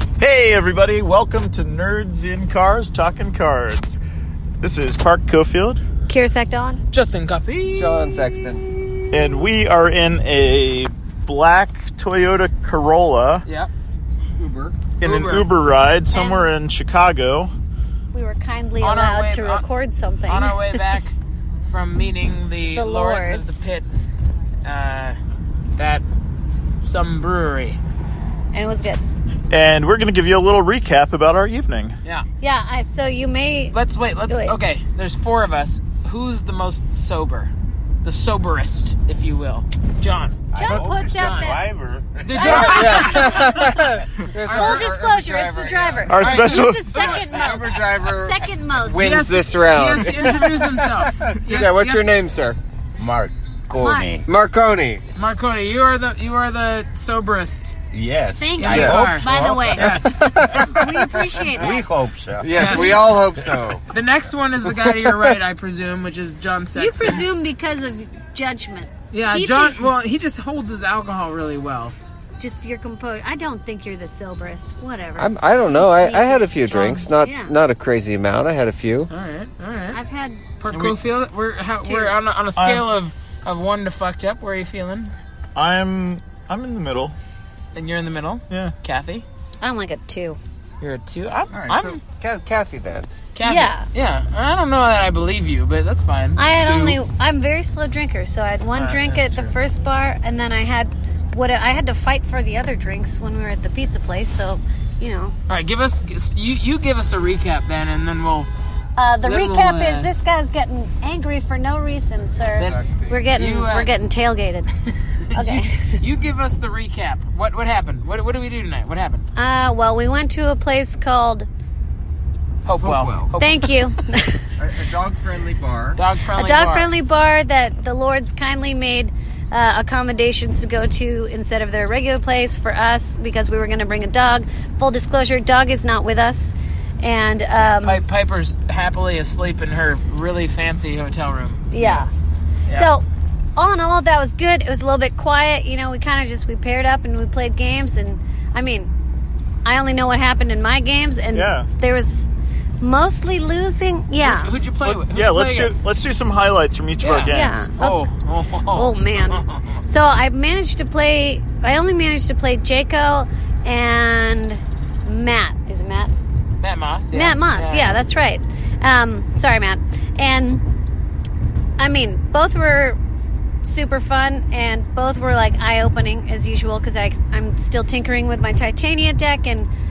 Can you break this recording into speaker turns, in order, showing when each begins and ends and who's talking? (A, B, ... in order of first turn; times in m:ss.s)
0:00.2-0:04.0 A
0:04.6-0:05.8 A
0:06.1-0:06.8 B
0:06.9-0:08.0 C
0:07.8-0:08.6 D
0:09.1-0:13.4 A
0:14.4-0:14.8 D
0:15.0-0:17.5 A
0:15.0-0:15.5 C
0:16.1-0:16.5 B
0:18.1-0:20.6 B
0:18.8-0:19.6 C
0:20.3-0:21.1 C
0:21.6-0:23.9 C
0:22.7-0:23.6 B
0:24.6-0:25.2 C
0:25.8-0:26.0 C
0:26.8-0:27.8 C
0:28.5-0:29.0 B
0:29.5-0:32.0 A
0:32.4-0:33.7 B
0:33.7-0:37.5 C
0:34.3-0:34.6 B
0:38.0-0:41.5 C
0:40.5-0:43.1 E
0:40.5-0:41.6 B
0:42.2-0:43.9 C
0:42.3-0:43.6 B
0:42.5-0:46.4 D
0:44.4-0:44.9 C
0:44.5-0:49.1 B
0:46.1-0:47.0 A
0:46.2-0:47.2 C
0:47.1-0:52.6 D
0:49.0-0:52.0 C
0:53.0-0:54.3 E
0:53.8-0:54.2 B
0:54.2-0:55.0 D
0:55.1-0:57.7 C
0:57.9-1:00.2 E
0:58.4-1:00.0 B
0:58.6-1:00.8 C
0:58.7-0:59.1 D
0:59.8-1:01.9 D
1:00.6-1:01.8 B
1:01.4-1:03.4 E
1:02.4-1:03.8 D
1:02.5-1:03.0 C
1:03.9-1:07.2 C
1:06.7-1:09.9 B
1:09.1-1:11.9 C
1:12.4-1:17.5 B
1:15.2-1:19.1 D
1:16.7-1:17.0 C
1:19.1-1:20.0 C
1:19.9-1:20.5 B
1:20.6-1:25.1 C
1:20.7-1:21.0 A
1:21.8-1:22.2 B
1:22.6-1:22.8 A
1:25.5-1:27.2 A
1:27.7-1:29.2 C
1:29.6-1:30.4 B
1:30.8-1:32.0 C
1:31.5-1:33.1 D
1:33.3-1:37.0 C
1:33.4-1:33.9 B
1:36.4-1:45.3 B
1:38.7-1:39.5 C
1:45.5-1:48.5 C
1:49.0-1:54.7 B
1:49.2-1:50.1 C
1:52.6-1:53.2 D
1:53.3-1:53.9 C
1:55.2-1:59.2 C
1:55.3-1:56.0 B
1:59.4-2:01.5 B
2:02.6-2:03.7 C
2:02.8-2:03.4 D
2:03.4-2:04.3 B
2:04.6-2:06.0 D
2:05.9-2:06.9 C
2:06.3-2:18.0 B
2:17.6-2:22.1 C
2:21.7-2:22.1 B
2:22.7-2:23.0 B
2:23.6-2:28.9 B
2:29.6-2:32.3 B
2:31.3-2:31.7 A
2:32.8-2:34.5 B
2:34.2-2:35.9 C
2:34.8-2:37.6 A
2:37.0-2:39.8 C
2:37.3-2:38.0 B
2:38.7-2:46.1 B
2:46.6-2:48.0 C
2:47.1-2:50.6 B
2:51.8-2:53.0 B
2:53.6-2:59.7 B